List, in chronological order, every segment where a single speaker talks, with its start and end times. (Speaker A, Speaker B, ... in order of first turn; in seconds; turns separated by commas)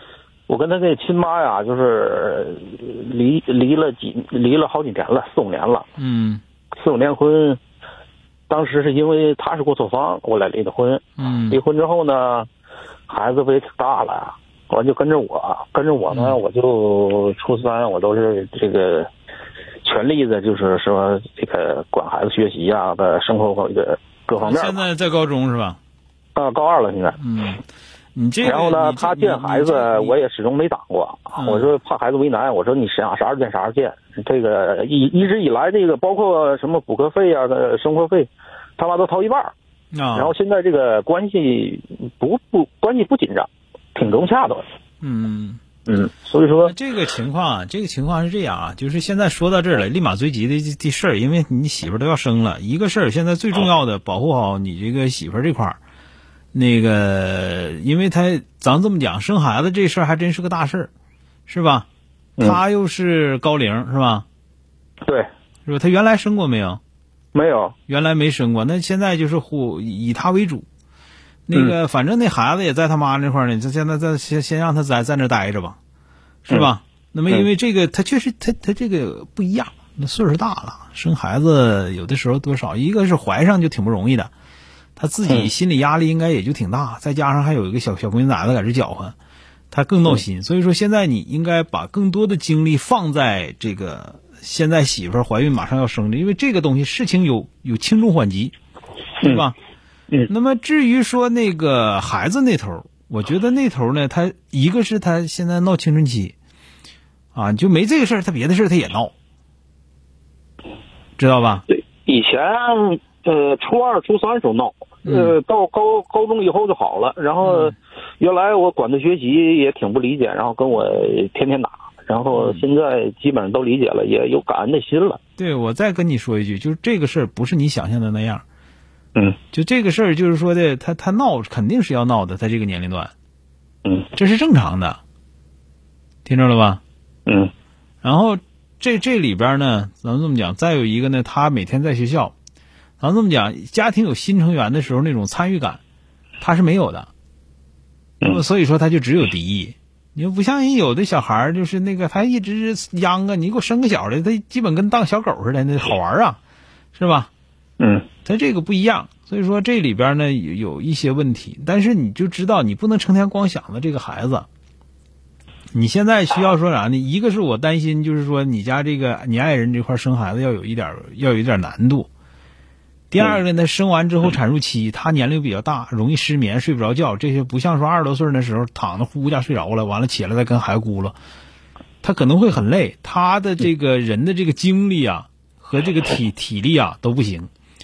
Speaker A: 0.5-5.9, Speaker B: 6.0-6.4, Speaker A: 6.7-7.6, Speaker A: 8.5-12.5, Speaker B: 11.2-11.6, Speaker A: 13.1-19.1, Speaker B: 16.1-16.4, Speaker A: 19.8-24.9, Speaker B: 24.4-25.8, Speaker A: 26.4-27.2, Speaker B: 27.2-27.6, Speaker B: 28.1-30.1, Speaker A: 28.4-39.5, Speaker B: 31.4-31.7, Speaker B: 39.9-40.3, Speaker A: 40.1-44.6, Speaker B: 45.0-45.6, Speaker A: 45.9-46.8, Speaker B: 46.6-55.8, Speaker B: 56.5-60.9, Speaker B: 61.5-61.9, Speaker B: 62.4-64.2, Speaker B: 65.7-66.8, Speaker A: 67.3-67.8, Speaker B: 67.9-70.7, Speaker B: 71.5-75.8, Speaker B: 76.5-84.3, Speaker B: 85.0-89.2, Speaker A: 85.3-85.5, Speaker B: 89.7-98.5, Speaker A: 99.2-99.5, Speaker B: 99.2-99.5, Speaker B: 100.3-106.3, Speaker B: 107.3-109.1, Speaker B: 111.2-111.7, Speaker A: 111.7-125.2, Speaker B: 115.0-115.3, Speaker B: 117.4-117.7, Speaker B: 122.4-122.6, Speaker B: 125.4-128.4, Speaker B: 129.5-133.1, Speaker B: 134.1-135.0, Speaker B: 136.2-136.8, Speaker A: 137.3-137.5, Speaker B: 138.0-142.3, Speaker B: 143.0-145.8, Speaker B: 146.4-147.1, Speaker B: 148.2-156.4, Speaker B: 156.9-157.3, Speaker A: 157.8-158.1, Speaker B: 158.2-164.5, Speaker B: 165.7-172.1, Speaker B: 173.1-181.2, Speaker B: 182.0-187.5